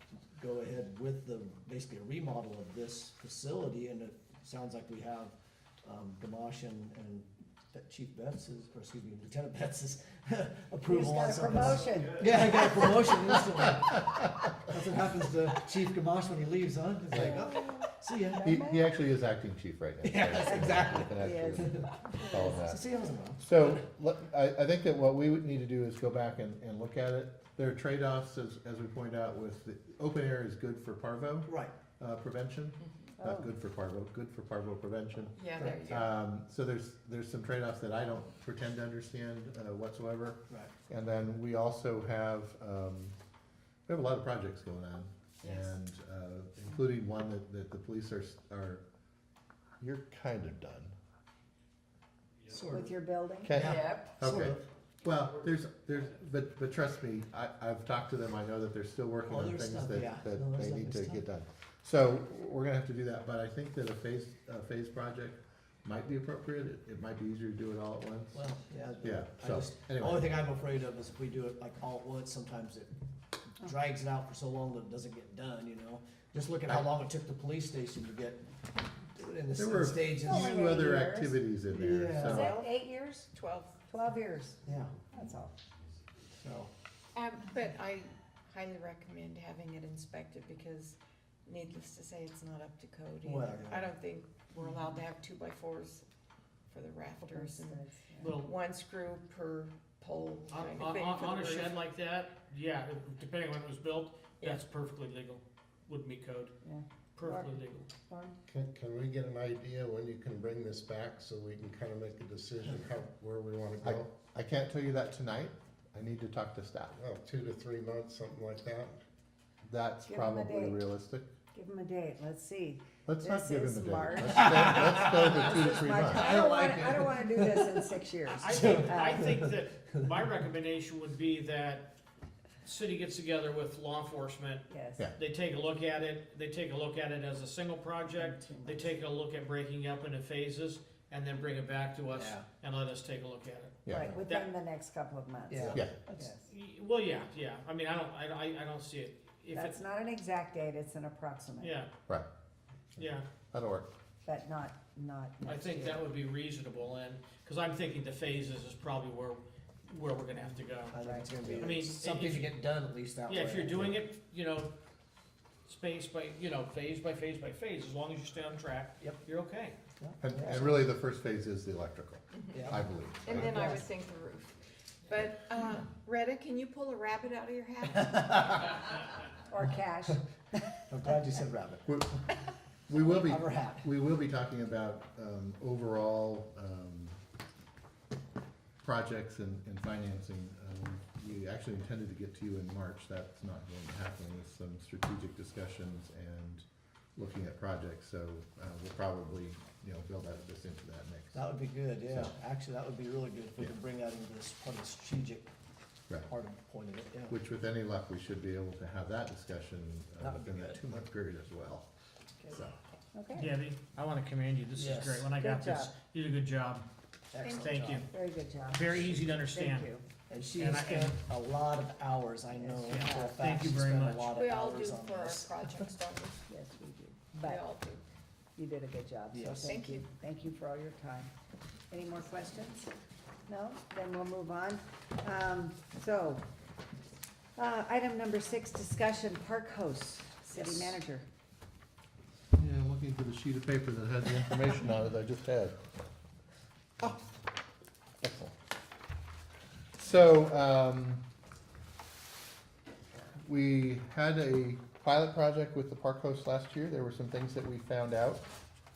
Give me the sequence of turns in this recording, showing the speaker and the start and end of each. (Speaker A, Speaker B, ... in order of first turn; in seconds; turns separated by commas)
Speaker A: 0.3-18.5, Speaker B: 10.8-12.8, Speaker B: 17.2-18.9, Speaker C: 18.4-22.8, Speaker A: 20.0-23.8, Speaker B: 20.7-22.4, Speaker C: 23.4-43.1, Speaker A: 31.5-31.7, Speaker D: 32.8-33.1, Speaker B: 33.2-33.5, Speaker D: 35.3-36.1, Speaker C: 43.9-48.8, Speaker D: 45.4-45.8, Speaker C: 49.8-51.0, Speaker A: 52.5-53.0, Speaker B: 52.7-53.5, Speaker C: 53.4-68.4, Speaker D: 53.5-54.1, Speaker A: 53.5-54.6, Speaker A: 59.3-61.2, Speaker A: 68.3-72.9, Speaker C: 69.0-70.3, Speaker A: 73.5-78.5, Speaker A: 79.0-80.9, Speaker C: 79.6-82.5, Speaker B: 80.2-81.4, Speaker A: 81.7-82.7, Speaker B: 82.2-83.3, Speaker D: 83.3-83.9, Speaker B: 83.9-85.5, Speaker A: 84.7-85.0, Speaker A: 86.3-86.7, Speaker D: 87.1-96.0, Speaker A: 93.2-93.9, Speaker D: 96.7-97.8, Speaker B: 97.2-98.4, Speaker E: 98.2-98.5, Speaker D: 98.4-101.8, Speaker E: 100.5-106.5, Speaker B: 106.6-108.4, Speaker E: 107.2-107.9, Speaker F: 108.5-114.1, Speaker C: 113.8-117.0, Speaker F: 117.0-119.0, Speaker C: 119.6-121.3, Speaker B: 120.1-120.9, Speaker B: 121.5-129.3, Speaker C: 123.0-126.3, Speaker A: 124.4-125.3, Speaker A: 126.1-127.9, Speaker E: 128.3-131.9, Speaker A: 128.5-129.5, Speaker E: 132.6-134.6, Speaker B: 134.7-135.1, Speaker E: 135.2-144.5, Speaker B: 138.0-138.9, Speaker A: 142.1-142.5, Speaker C: 143.8-144.1, Speaker B: 143.9-146.5, Speaker A: 145.5-146.3, Speaker E: 146.5-149.8, Speaker B: 149.5-151.8, Speaker E: 151.6-151.9, Speaker E: 153.0-153.2, Speaker C: 153.5-153.9, Speaker B: 154.2-156.1, Speaker E: 155.4-160.9, Speaker A: 160.9-164.0, Speaker B: 161.0-161.6, Speaker E: 161.6-162.5, Speaker E: 163.3-164.7, Speaker E: 165.6-169.8, Speaker A: 170.0-170.8, Speaker C: 170.2-173.6, Speaker A: 172.5-173.8, Speaker D: 173.2-174.5, Speaker D: 175.1-178.9, Speaker B: 179.5-180.8, Speaker A: 180.9-181.9, Speaker C: 181.8-182.2, Speaker C: 182.9-187.2, Speaker A: 182.9-183.9, Speaker C: 188.8-196.6, Speaker C: 197.2-201.4, Speaker A: 201.3-205.5, Speaker A: 206.3-207.4, Speaker C: 207.3-211.9, Speaker A: 210.2-210.8, Speaker C: 212.5-212.7, Speaker B: 213.1-213.6, Speaker E: 213.3-216.8, Speaker A: 214.7-215.3, Speaker B: 215.3-215.9, Speaker A: 217.3-218.1, Speaker D: 217.4-217.7, Speaker E: 217.5-218.1, Speaker B: 218.1-220.1, Speaker E: 218.7-219.9, Speaker A: 220.3-225.9, Speaker E: 220.5-221.2, Speaker B: 222.5-223.5, Speaker E: 222.9-224.3, Speaker D: 224.3-226.4, Speaker B: 226.5-227.6, Speaker D: 227.4-228.0, Speaker B: 228.6-231.3, Speaker A: 229.3-229.8, Speaker D: 229.5-230.1, Speaker B: 231.9-232.9, Speaker B: 233.5-236.4, Speaker B: 237.6-241.2, Speaker C: 242.5-245.7, Speaker C: 248.2-248.5, Speaker C: 249.9-251.2, Speaker C: 253.4-258.4